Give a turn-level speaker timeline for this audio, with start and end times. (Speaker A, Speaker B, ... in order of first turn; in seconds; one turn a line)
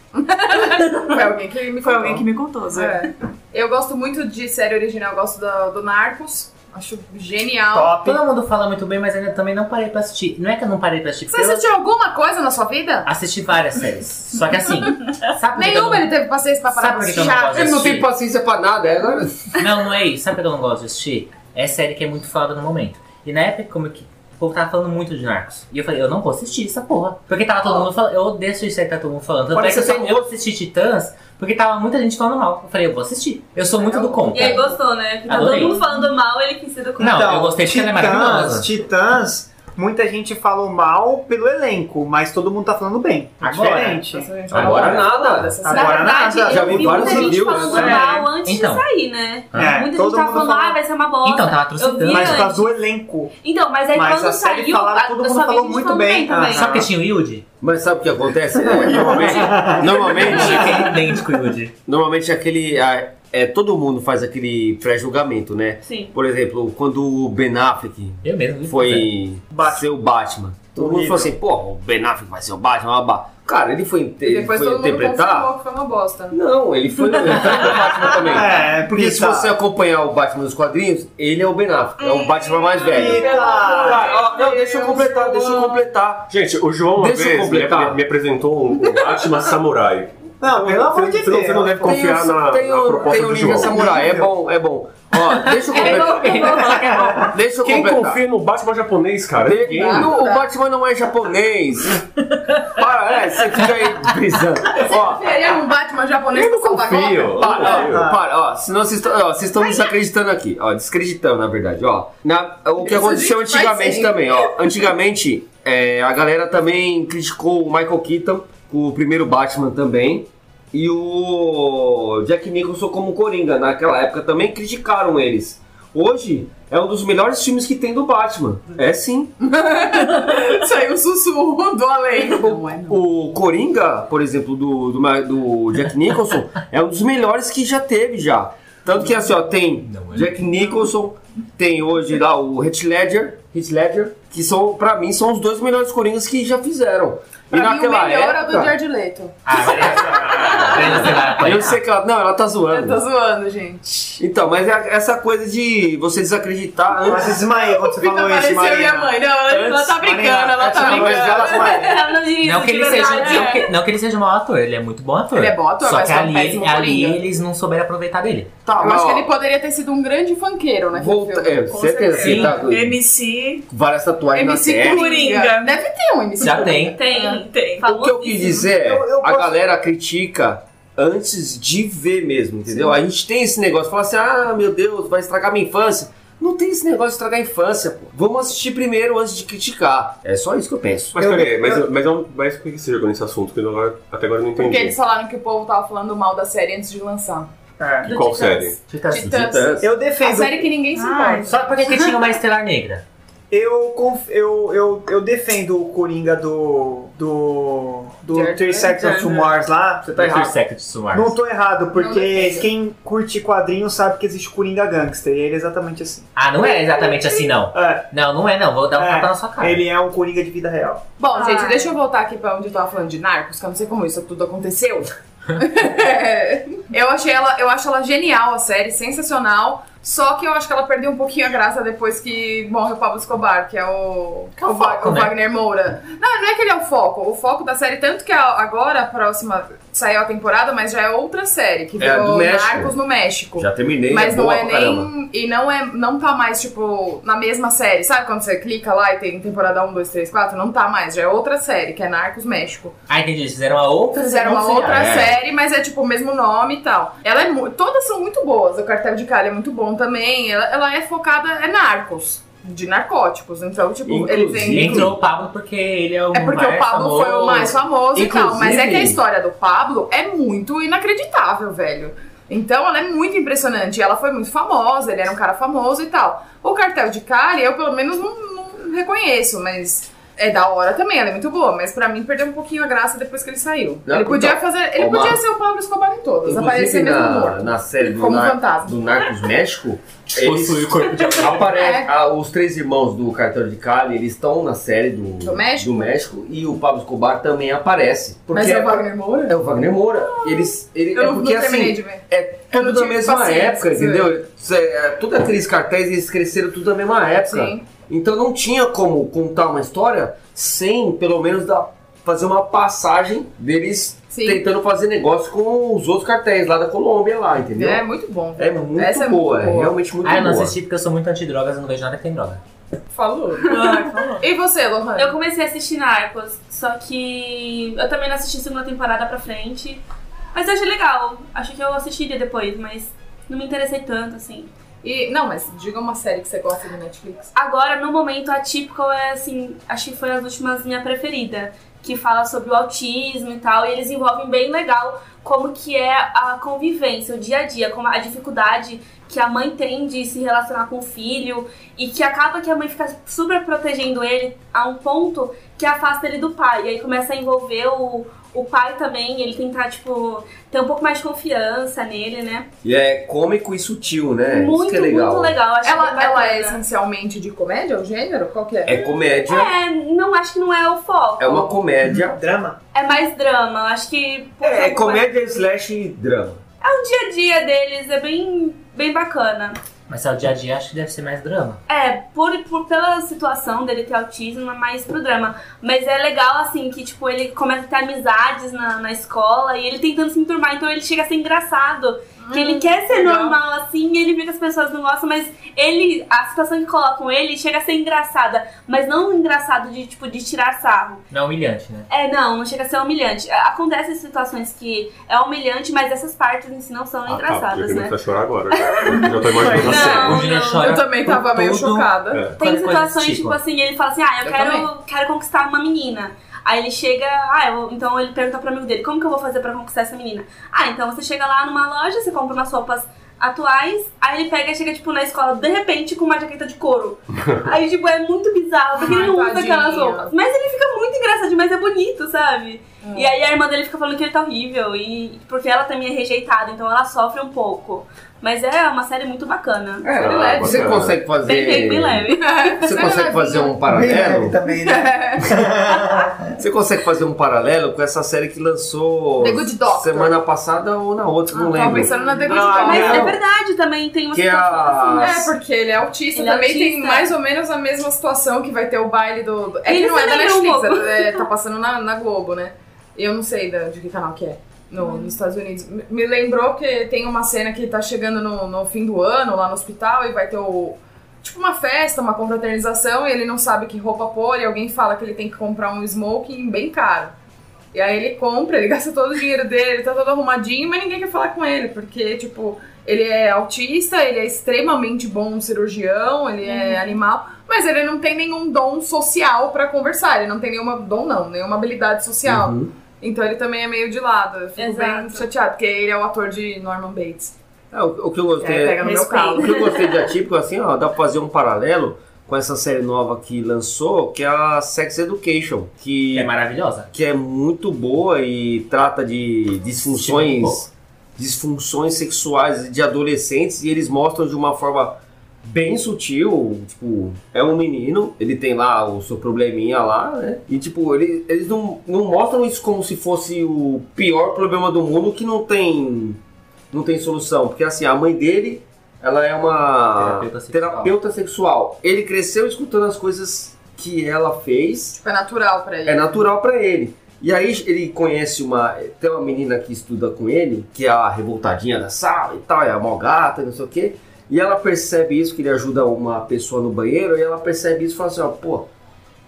Speaker A: 0.1-8.0
Speaker B: 0.7-1.3
Speaker B: 1.8-3.1
Speaker C: 7.7-8.2
Speaker D: 8.0-11.7
Speaker A: 11.3-13.1
Speaker D: 13.1-16.1
Speaker A: 15.6-17.8
Speaker D: 16.7-18.1
Speaker E: 17.4-19.6
Speaker D: 19.6-34.6
Speaker E: 29.5-30.3
Speaker A: 33.8-34.8
Speaker F: 34.3-37.3
Speaker D: 35.3-35.8
Speaker A: 35.4-35.8
Speaker D: 37.0-38.7
Speaker C: 37.0-44.3
Speaker D: 43.4-44.0
Speaker A: 43.6-48.1
Speaker E: 44.5-45.7
Speaker D: 44.6-45.0
Speaker C: 45.6-48.3
Speaker F: 45.7-52.8
Speaker E: 46.4-48.0
Speaker D: 48.4-48.8
Speaker D: 49.5-49.8
Speaker C: 49.5-50.8
Speaker D: 51.2-52.5
Speaker C: 52.1-53.3
Speaker F: 53.4-56.8
Speaker C: 53.9-56.9
Speaker D: 56.5-57.5
Speaker E: 57.6-60.9
Speaker C: 58.7-61.0
Speaker D: 60.1-61.7
Speaker E: 61.9-75.5
Speaker F: 65.8-66.1
Speaker D: 68.2-69.1
Speaker C: 69.5-69.9
Speaker C: 70.8-71.3
Speaker A: 74.2-76.4
Speaker E: 76.3-86.3
Speaker C: 78.2-79.5
Speaker B: 82.0-83.1
Speaker C: 82.9-84.1
Speaker A: 83.0-85.8
Speaker G: 86.3-93.9
Speaker E: 87.0-88.0
Speaker C: 90.4-92.0
Speaker E: 91.8-98.2
Speaker C: 93.6-94.3
Speaker A: 95.7-96.8
Speaker D: 95.7-96.8
Speaker F: 95.8-96.8
Speaker C: 96.8-97.3
Speaker G: 97.6-100.1
Speaker E: 99.4-102.1
Speaker A: 99.7-100.5
Speaker E: 102.7-105.5
Speaker A: 104.8-107.9
Speaker G: 106.3-108.1
Speaker E: 107.3-129.3
Speaker C: 107.7-108.2
Speaker A: 112.8-114.8
Speaker A: 129.4-133.0
Speaker E: 132.9-148.7
Speaker D: 139.9-140.3
Speaker A: 147.5-151.3
Speaker D: 149.4-151.8
Speaker E: 150.4-153.0
Speaker A: 152.7-154.2
Speaker E: 154.2-157.4
Speaker C: 157.0-159.2
Speaker A: 157.2-162.0
Speaker E: 159.5-160.0
Speaker C: 159.9-162.0
Speaker E: 160.6-161.7
Speaker F: 161.4-163.7
Speaker D: 162.4-168.5
Speaker A: 162.8-163.6
Speaker A: 165.3-167.2
Speaker E: 168.7-169.3
Speaker A: 168.7-171.7
Speaker E: 170.9-173.0
Speaker B: 171.7-173.7
Speaker D: 172.2-172.6
Speaker E: 173.7-175.1
Speaker A: 174.3-177.3
Speaker B: 174.9-175.8
Speaker D: 176.4-177.0
Speaker F: 177.0-178.7
Speaker B: 177.2-177.9
Speaker E: 177.8-191.2
Speaker C: 178.8-179.6
Speaker G: 191.1-195.0
Speaker C: 191.2-191.8
Speaker A: 194.6-197.5
Speaker C: 197.8-198.1
Speaker G: 198.1-198.8
Speaker F: 198.1-198.7
Speaker D: 198.9-199.5
Speaker A: 199.1-201.7
Speaker E: 199.2-199.8
Speaker C: 199.8-200.7
Speaker B: 200.9-202.0
Speaker D: 201.5-203.0
Speaker C: 203.5-210.6
Speaker A: 208.3-209.4
Speaker D: 210.2-211.4
Speaker C: 211.1-216.3
Speaker A: 212.0-212.7
Speaker D: 216.4-219.8
Speaker A: 217.1-217.3
Speaker C: 217.7-218.1
Speaker C: 219.0-221.1
Speaker A: 221.2-252.9
Speaker B: 221.3-221.9
Speaker D: 234.6-235.3
Speaker E: 242.0-243.0
Speaker E: 243.6-245.1
Speaker D: 253.1-255.0
Speaker A: 254.1-265.1
Speaker E: 254.8-255.4
Speaker E: 264.1-265.1
Speaker D: 264.7-267.2
Speaker A: 266.3-289.1
Speaker E: 267.0-269.2
Speaker E: 284.1-285.4
Speaker E: 286.4-318.0
Speaker G: 290.3-291.8
Speaker A: 291.6-292.1
Speaker A: 295.4-296.2
Speaker A: 298.5-299.6
Speaker A: 300.2-304.3
Speaker A: 307.5-307.9
Speaker A: 314.3-314.6
Speaker A: 317.8-319.9
Speaker E: 318.6-320.8
Speaker D: 320.2-322.6
Speaker A: 323.1-325.4
Speaker F: 323.7-324.1
Speaker B: 323.8-324.4
Speaker F: 325.2-334.7
Speaker A: 335.0-337.5
Speaker F: 337.6-362.7
Speaker E: 362.8-365.6
Speaker F: 364.5-366.8
Speaker A: 365.8-368.9
Speaker E: 368.9-369.7
Speaker F: 369.1-371.8
Speaker E: 371.4-372.4
Speaker C: 372.1-372.8
Speaker F: 372.9-375.4
Speaker E: 374.6-376.6
Speaker F: 376.8-379.8
Speaker D: 380.1-381.8
Speaker F: 381.9-401.2
Speaker A: 392.4-393.6
Speaker D: 401.3-402.1
Speaker F: 402.1-408.2
Speaker G: 407.3-410.4
Speaker F: 408.7-410.9
Speaker A: 409.6-412.4
Speaker D: 409.8-413.6
Speaker G: 412.3-412.6
Speaker F: 412.6-440.1
Speaker A: 414.4-414.9
Speaker A: 429.0-430.3
Speaker A: 433.0-433.3
Speaker E: 440.1-442.3
Speaker A: 440.1-440.9
Speaker G: 440.2-441.2
Speaker F: 441.4-442.9
Speaker A: 442.4-443.8
Speaker E: 442.8-444.6
Speaker C: 443.9-446.5
Speaker A: 444.7-446.0
Speaker E: 446.6-452.2
Speaker A: 449.4-450.4
Speaker A: 451.5-453.3
Speaker F: 452.1-455.4
Speaker C: 452.5-453.4
Speaker E: 452.7-453.4
Speaker E: 454.3-455.5
Speaker A: 455.2-477.4
Speaker F: 456.4-457.3
Speaker F: 459.9-461.5
Speaker F: 465.0-465.4
Speaker A: 477.9-497.5
Speaker F: 486.6-487.2
Speaker E: 492.4-492.9
Speaker F: 494.8-495.5
Speaker E: 497.9-506.5
Speaker A: 498.6-499.9
Speaker B: 499.0-499.6
Speaker D: 506.3-507.1
Speaker E: 507.1-526.4
Speaker D: 510.1-510.9
Speaker E: 526.9-535.2
Speaker D: 530.1-531.1
Speaker A: 535.2-536.4
Speaker E: 536.0-548.9